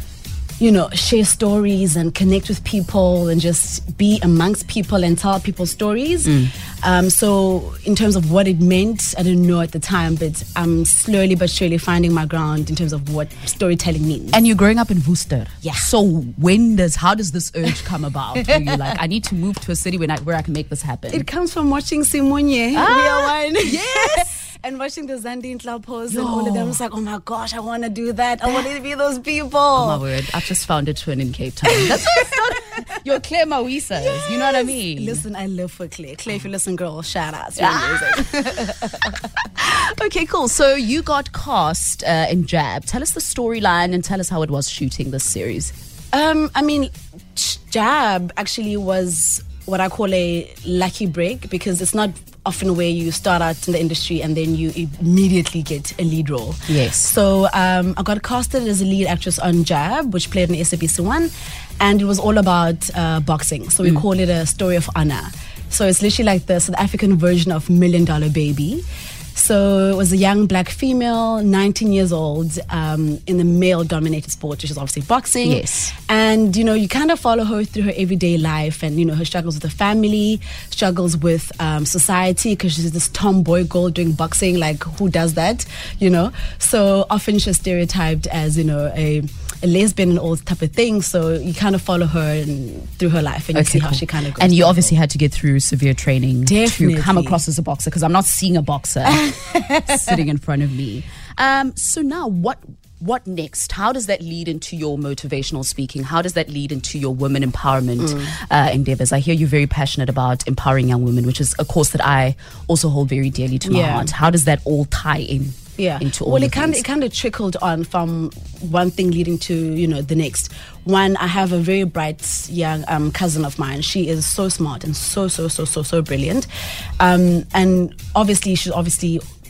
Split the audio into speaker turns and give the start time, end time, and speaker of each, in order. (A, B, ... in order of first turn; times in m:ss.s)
0:00.6-0:14.4 A
0:06.2-0:06.5 B
0:14.3-0:21.2 B
0:15.6-0:15.9 A
0:21.1-0:30.0 A
0:22.7-0:24.4 B
0:26.1-0:26.8 B
0:29.7-0:35.2 B
0:31.8-0:32.3 A
0:34.5-0:39.0 A
0:37.6-0:45.7 B
0:46.1-1:08.8 A
0:56.7-0:57.1 B
1:09.3-1:34.9 A
1:15.4-1:15.9 B
1:33.5-1:39.3 B
1:36.4-1:37.4 A
1:39.1-1:40.0 A
1:39.9-1:56.8 B
1:48.0-1:48.3 A
1:53.6-1:54.1 A
1:55.8-2:06.5 A
2:07.0-2:09.2 A